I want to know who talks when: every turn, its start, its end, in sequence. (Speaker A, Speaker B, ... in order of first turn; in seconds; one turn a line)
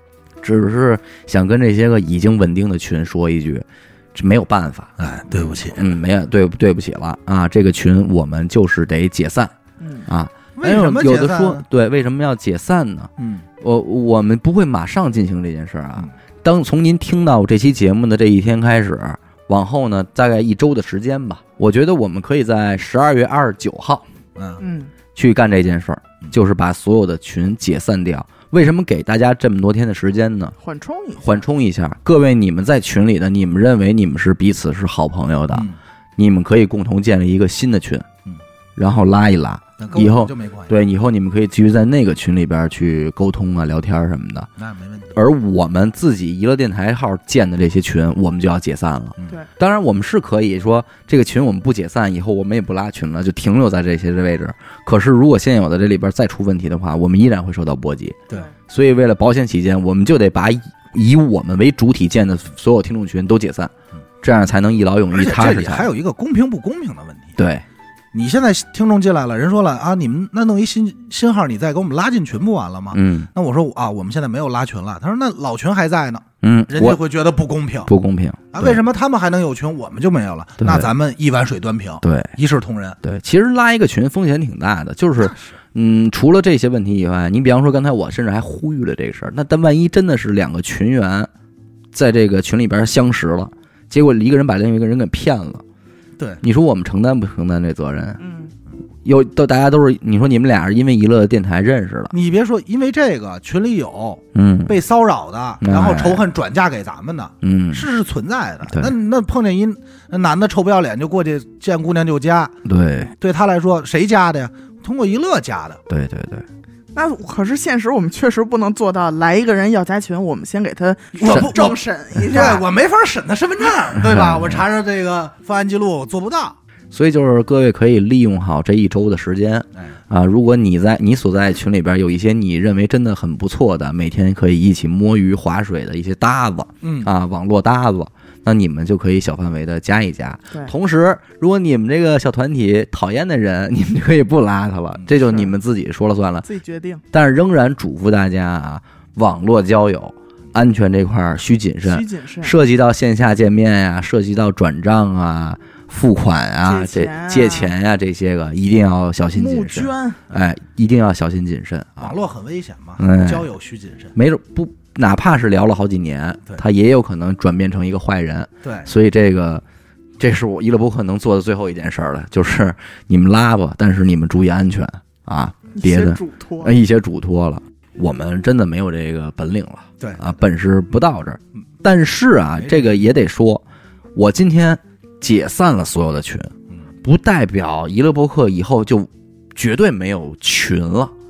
Speaker A: 0.4-5.0
Speaker B: 5.0-5.8
Speaker A: 5.8-9.5
Speaker C: 9.8-10.1
Speaker A: 10.1-24.1
Speaker B: 10.6-11.6
Speaker B: 13.2-13.5
Speaker B: 24.4-24.6
Speaker C: 24.6-24.9
Speaker A: 25.1-30.5
Speaker C: 30.6-31.4
Speaker A: 31.2-38.1
Speaker A: 38.8-44.5
Speaker B: 39.8-40.7
Speaker B: 44.6-45.1
Speaker A: 45.1-65.9
Speaker B: 65.1-67.4
Speaker A: 67.4-67.6
Speaker B: 68.1-77.9
Speaker A: 72.9-73.3
Speaker A: 76.4-77.0
Speaker A: 77.8-78.8
Speaker B: 78.5-83.0
Speaker A: 80.6-80.9
Speaker A: 82.0-82.3
Speaker A: 83.0-91.3
Speaker B: 85.2-85.5
Speaker A: 91.9-95.6
Speaker A: 96.4-98.2
Speaker C: 98.2-98.5
Speaker A: 99.0-102.1
Speaker B: 102.1-112.6
Speaker A: 104.3-104.8
Speaker A: 105.6-106.2
Speaker A: 107.4-107.9
Speaker A: 112.7-113.1
Speaker B: 113.2-115.8
Speaker A: 115.9-116.5
Speaker C: 116.9-122.6
Speaker B: 121.2-126.6
Speaker A: 124.0-124.6
Speaker A: 126.9-146.5
Speaker B: 136.8-137.1
Speaker C: 145.2-145.5
Speaker C: 146.4-147.0
Speaker A: 147.1-162.1
Speaker C: 151.8-152.5
Speaker C: 156.6-157.7
Speaker C: 159.3-160.2
Speaker B: 162.0-164.1
Speaker A: 163.0-163.5
Speaker A: 164.1-169.6
Speaker B: 168.6-168.9
Speaker A: 170.2-183.6
Speaker C: 175.7-176.7
Speaker B: 180.0-180.3
Speaker B: 182.6-183.0
Speaker A: 184.1-191.1